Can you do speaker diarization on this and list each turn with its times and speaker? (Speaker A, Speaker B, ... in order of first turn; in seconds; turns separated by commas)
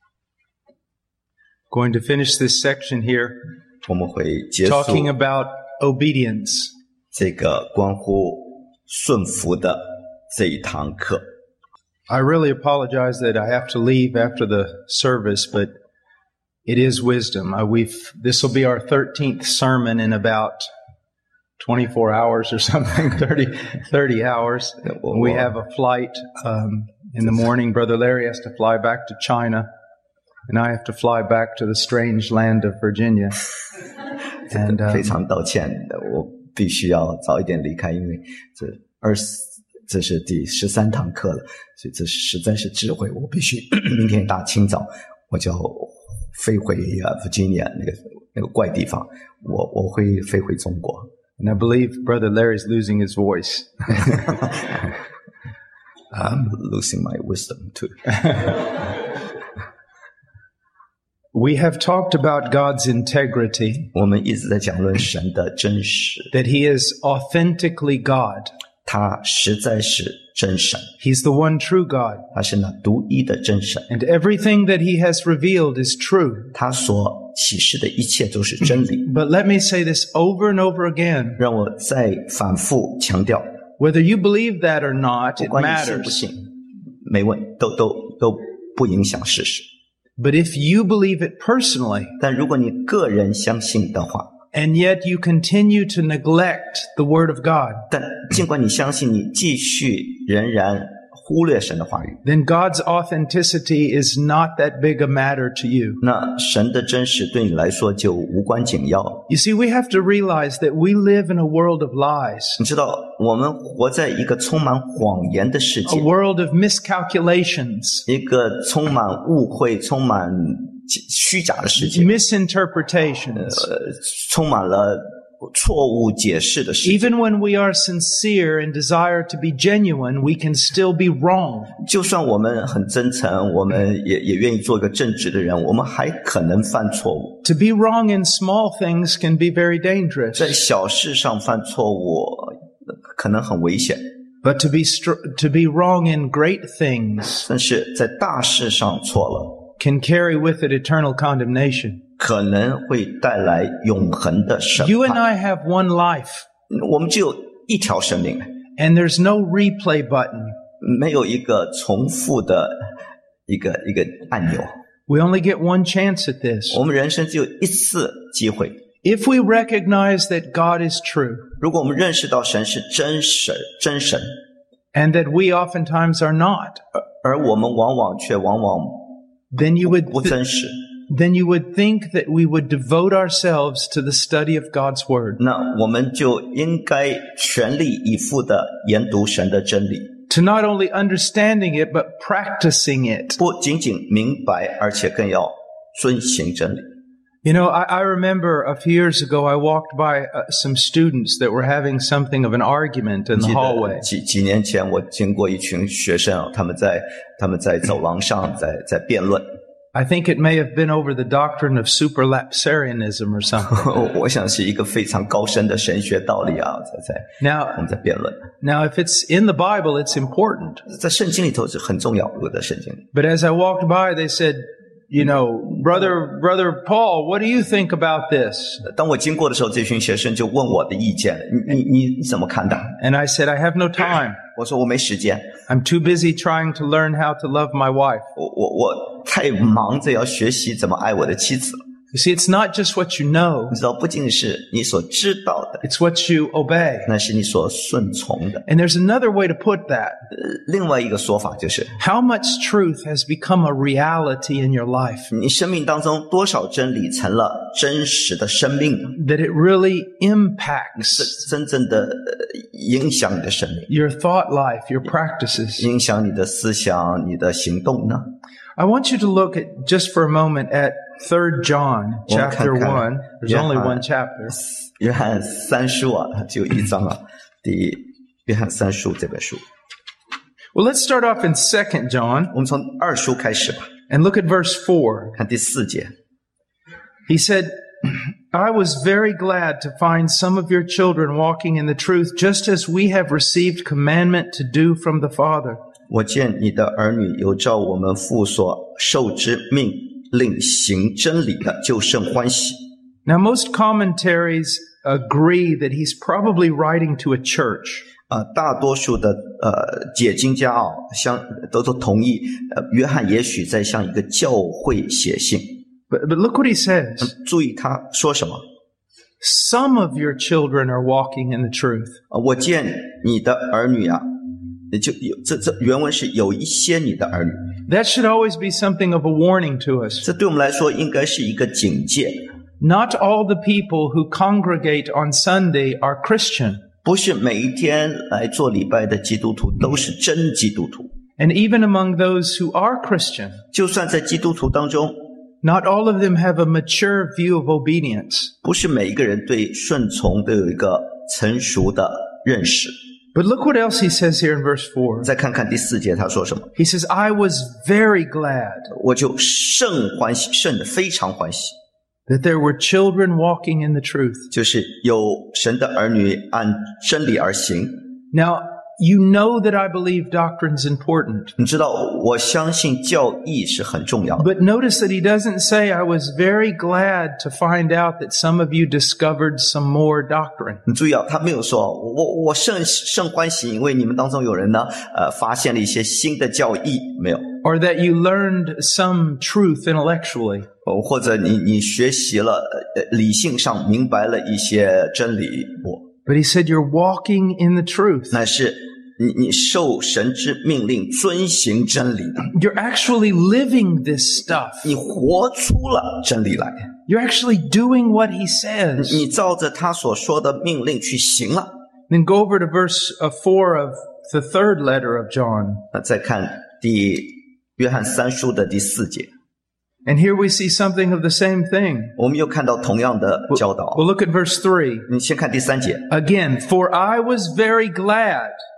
Speaker A: 1.7-3.4, Speaker B: 3.9-5.1, Speaker A: 4.6-6.7, Speaker B: 7.1-11.2, Speaker A: 12.1-15.7, Speaker A: 16.6-20.7, Speaker A: 21.6-29.7, Speaker B: 24.8-25.5, Speaker A: 30.5-33.4, Speaker A: 34.5-35.1, Speaker B: 34.5-51.1, Speaker A: 51.4-54.4, Speaker B: 54.1-54.6, Speaker B: 56.1-58.6, Speaker A: 61.3-63.9, Speaker B: 63.9-66.3, Speaker A: 66.3-68.5, Speaker B: 68.8-70.9, Speaker A: 71.0-72.2, Speaker B: 72.3-73.9, Speaker A: 73.9-76.5, Speaker B: 76.5-79.0, Speaker A: 79.0-81.4, Speaker B: 81.4-83.5, Speaker A: 83.8-86.2, Speaker B: 85.4-86.5, Speaker B: 87.0-89.7, Speaker A: 90.2-92.1, Speaker B: 92.2-94.3, Speaker A: 94.5-97.8, Speaker B: 97.9-102.2, Speaker A: 102.2-106.0, Speaker B: 106.0-109.2, Speaker A: 109.3-112.6, Speaker B: 112.6-116.1, Speaker A: 115.8-118.0, Speaker B: 118.0-122.1, Speaker A: 121.8-123.7, Speaker B: 123.4-127.0, Speaker A: 126.8-131.7, Speaker B: 131.8-137.4, Speaker A: 137.4-140.6, Speaker B: 140.3-144.0, Speaker A: 144.4-147.4, Speaker B: 147.4-149.7, Speaker A: 149.8-152.0, Speaker B: 152.2-155.2, Speaker A: 154.8-156.4, Speaker B: 156.7-158.6, Speaker A: 158.8-160.6, Speaker B: 160.8-162.8, Speaker B: 163.5-164.7, Speaker A: 165.1-166.8, Speaker B: 166.7-168.8, Speaker A: 169.0-171.5, Speaker B: 171.6-174.4, Speaker A: 174.9-176.8, Speaker B: 177.2-179.2, Speaker A: 179.5-180.3, Speaker B: 179.9-180.8, Speaker A: 181.1-185.4, Speaker B: 185.4-190.1, Speaker A: 190.3-193.4, Speaker B: 193.4-196.9, Speaker A: 197.4-204.0, Speaker B: 203.3-209.5, Speaker A: 209.9-213.9, Speaker B: 213.7-218.5, Speaker A: 217.4-217.8, Speaker A: 218.6-220.8, Speaker B: 220.8-223.1, Speaker A: 223.1-228.8, Speaker B: 228.8-232.9, Speaker A: 233.0-234.4, Speaker B: 234.5-235.5, Speaker A: 235.7-238.3, Speaker B: 238.3-241.8, Speaker A: 242.1-243.8, Speaker B: 243.7-245.8, Speaker A: 245.8-247.1, Speaker B: 247.1-248.6, Speaker A: 248.7-250.2, Speaker B: 250.3-252.0, Speaker A: 252.0-255.3, Speaker B: 255.3-259.1, Speaker A: 259.1-261.4, Speaker B: 261.0-263.9, Speaker A: 263.9-265.9, Speaker B: 265.8-268.3, Speaker A: 268.8-274.6, Speaker B: 272.3-279.6, Speaker A: 280.7-282.5, Speaker B: 282.5-283.9, Speaker A: 284.1-285.4, Speaker B: 285.4-286.1, Speaker A: 287.3-295.8, Speaker B: 296.1-302.8, Speaker A: 303.2-308.1, Speaker B: 308.3-315.8, Speaker A: 316.1-317.3, Speaker B: 317.2-318.6, Speaker A: 319.4-322.2, Speaker B: 322.3-324.3, Speaker B: 324.9-327.7, Speaker A: 327.9-330.2, Speaker B: 330.2-332.4, Speaker A: 332.8-336.8, Speaker B: 337.0-341.1, Speaker A: 341.4-343.6, Speaker B: 343.7-345.2, Speaker A: 345.6-348.5, Speaker B: 348.6-352.9, Speaker A: 353.3-355.3, Speaker B: 355.2-356.7, Speaker A: 356.8-358.9, Speaker B: 358.9-361.8, Speaker A: 362.3-364.5, Speaker B: 364.5-368.0, Speaker A: 368.3-371.5, Speaker B: 371.6-374.5, Speaker A: 374.4-380.8, Speaker B: 380.9-387.5, Speaker A: 387.6-390.7, Speaker B: 390.8-396.1, Speaker A: 396.2-398.4, Speaker B: 398.3-402.5, Speaker A: 402.4-404.9, Speaker B: 404.8-406.9, Speaker A: 407.1-409.2, Speaker B: 409.0-411.7, Speaker A: 412.1-415.8, Speaker B: 415.9-419.3, Speaker A: 420.1-422.1, Speaker B: 422.1-424.0, Speaker A: 423.5-425.1, Speaker B: 425.1-426.1, Speaker A: 426.1-428.5